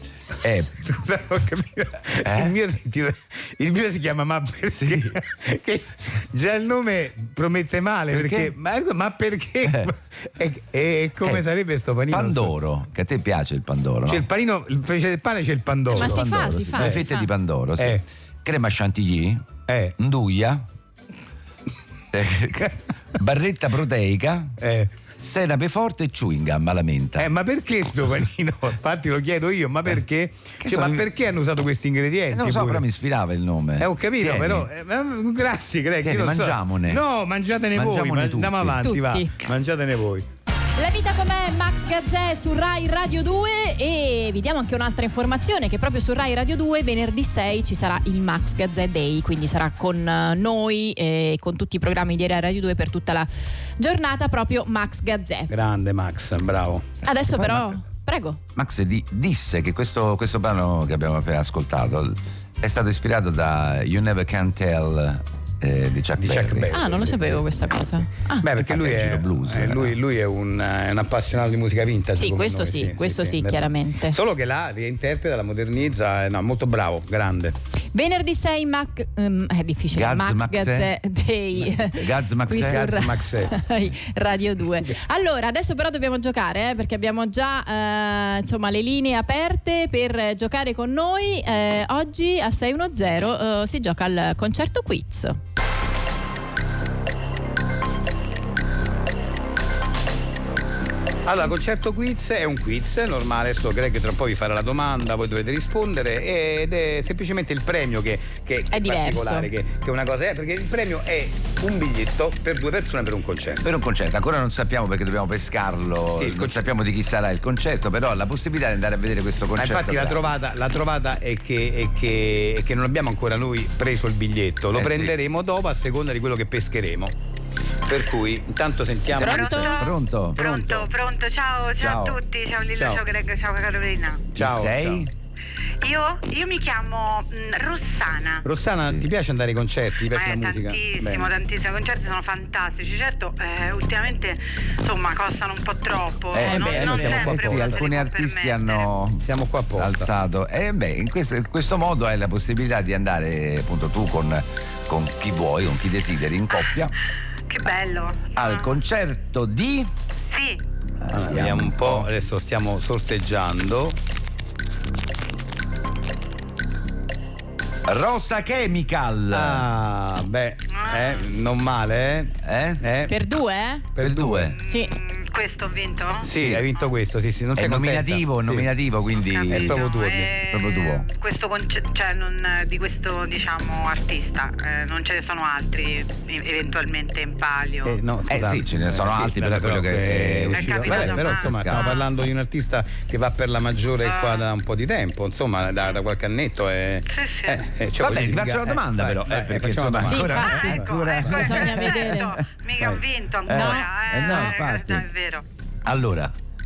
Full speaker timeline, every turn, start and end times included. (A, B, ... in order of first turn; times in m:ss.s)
0:00.4-0:00.8 A
0:00.8-0:12.5 B
0:02.2-0:02.5 A
0:04.7-0:05.1 A
0:08.1-0:08.5 A
0:12.1-0:14.2 A
0:14.0-0:16.2 B
0:15.9-0:17.3 C
0:15.9-0:19.4 A
0:16.8-0:17.0 B
0:17.8-0:18.0 B
0:19.7-0:20.0 B
0:20.0-0:20.6 A
0:22.1-0:24.5 A
0:24.6-0:24.9 B
0:25.2-0:27.3 A
0:27.2-0:32.8 B
0:30.6-0:31.0 A
0:32.3-0:34.7 A
0:33.8-0:40.2 B
0:36.0-0:37.0 A
0:37.7-0:38.8 A
0:38.8-0:39.3 C
0:40.8-0:55.5 C
0:55.5-0:57.7 B
0:57.0-0:58.4 C
0:58.5-1:06.7 A
1:06.2-1:17.6 B
1:06.7-1:08.5 C
1:08.6-1:09.9 A
1:12.2-1:14.2 C
1:17.9-1:35.4 C
1:19.9-1:20.9 A
1:21.8-1:22.9 A
1:22.5-1:23.6 B
1:41.2-1:53.7 B
1:48.7-1:49.5 C
1:53.6-2:00.2 A
1:56.1-1:56.6 B
1:59.6-2:07.1 B
2:04.7-2:05.1 A
2:07.8-2:09.8 B
2:09.2-2:14.3 D
2:09.2-2:09.7 C
2:09.6-2:10.4 A
2:10.4-2:10.9 B
2:11.8-2:12.2 A
2:12.7-2:13.0 B
2:14.3-2:15.0 B
2:14.4-2:15.1 A
2:15.8-2:18.4 D
2:18.4-2:21.3 B
2:18.8-2:19.0 A
2:20.1-2:28.9 D
2:26.3-2:29.2 A
2:26.4-2:27.8 B
2:29.2-2:30.1 B
2:29.8-2:36.9 A
2:37.5-2:38.8 D
2:38.3-2:39.9 A
2:40.3-2:40.6 D
2:41.0-2:42.1 A
2:41.1-2:44.0 B
2:47.9-2:49.6 A
2:49.3-2:53.1 B
2:50.7-2:51.2 D
2:52.4-2:52.8 A
2:53.1-2:53.9 C
2:54.0-2:54.6 B
2:54.0-2:54.6 A
2:54.6-2:56.3 D
2:54.7-2:54.9 C
2:56.2-2:58.7 B
2:56.3-2:56.6 A
2:57.6-2:59.8 A
2:59.2-3:08.0 D
2:59.5-3:00.3 B
3:00.4-3:01.1 A
3:07.8-3:21.3 B
3:08.3-3:12.0 A
3:10.5-3:12.1 D
3:14.0-3:14.4 D
3:17.1-3:17.6 D
3:18.0-3:22.4 A
3:20.0-3:22.3 C
3:20.3-3:25.4 D
3:23.4-3:25.0 A
3:23.5-3:24.5 C
3:25.8-3:26.3 A